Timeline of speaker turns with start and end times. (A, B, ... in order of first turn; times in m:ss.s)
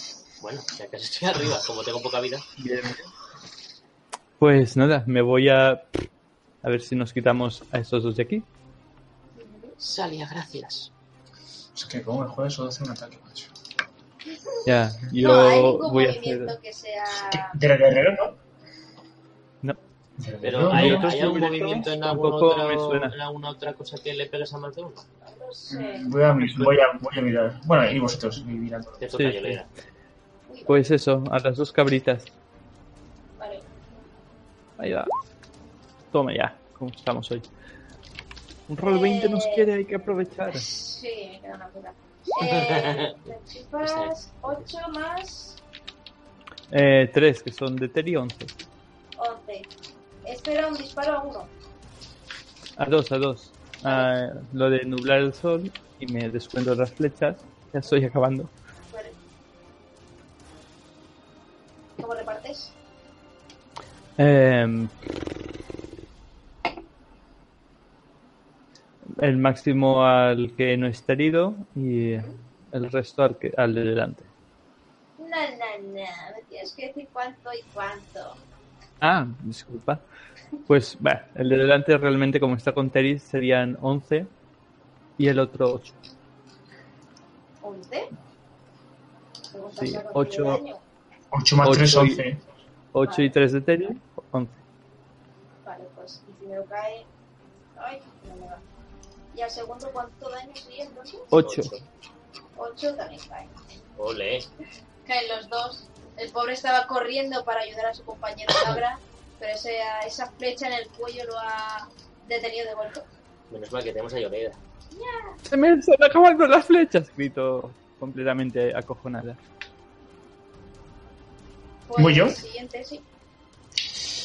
0:00.4-0:02.4 A
0:02.6-0:03.1 B
0:04.4-0:05.8 B
0:06.6-0:08.4 B
0:09.4-0:09.8 C
0:09.8-0:10.9 A
0:11.7-0:13.5 D
0:14.4-0:17.6 C
0:14.6-0:16.5 B
0:17.5-0:18.4 D
0:20.2-0:21.1 D
0:20.4-0:25.0 A
0:20.6-0:23.1 B
0:25.2-0:26.1 C
0:25.7-0:29.0 D
0:26.4-0:26.7 B
0:29.0-0:29.7 A
0:29.1-0:29.6 B
0:30.5-0:30.8 C
0:30.7-0:32.3 B
0:33.4-0:33.7 C
0:34.8-0:35.1 B
0:36.1-0:37.5 B
0:38.7-0:40.7 B
0:38.8-0:39.7 C
0:40.5-0:45.6 C
0:42.4-0:43.1 A
0:43.8-0:44.6 A
0:46.7-0:48.5 B
0:49.2-0:49.7 C
0:50.2-0:51.5 C
0:52.8-0:58.5 B
0:53.8-0:54.1 C
0:58.9-0:59.2 C
1:02.0-1:02.7 C
1:04.2-1:04.9 B
1:09.2-1:14.3 B
1:15.2-1:18.4 C
1:19.0-1:20.0 B
1:20.7-1:24.3 B
1:25.2-1:26.0 B
1:27.6-1:28.1 C
1:29.5-1:30.8 C
1:29.8-1:30.6 B
1:31.3-1:32.4 D
1:31.6-1:32.2 B
1:32.9-1:34.6 B
1:33.0-1:33.3 C
1:35.6-1:37.1 C
1:37.7-1:38.6 C
1:39.3-1:41.3 C
1:41.3-1:41.7 B
1:41.3-1:41.8 A
1:42.5-1:43.5 C
1:44.0-1:44.5 A
1:45.0-1:53.0 C
1:53.5-1:54.6 A
1:54.9-1:55.4 C
1:55.5-1:59.4 B
2:01.9-2:03.0 C
2:02.0-2:02.4 D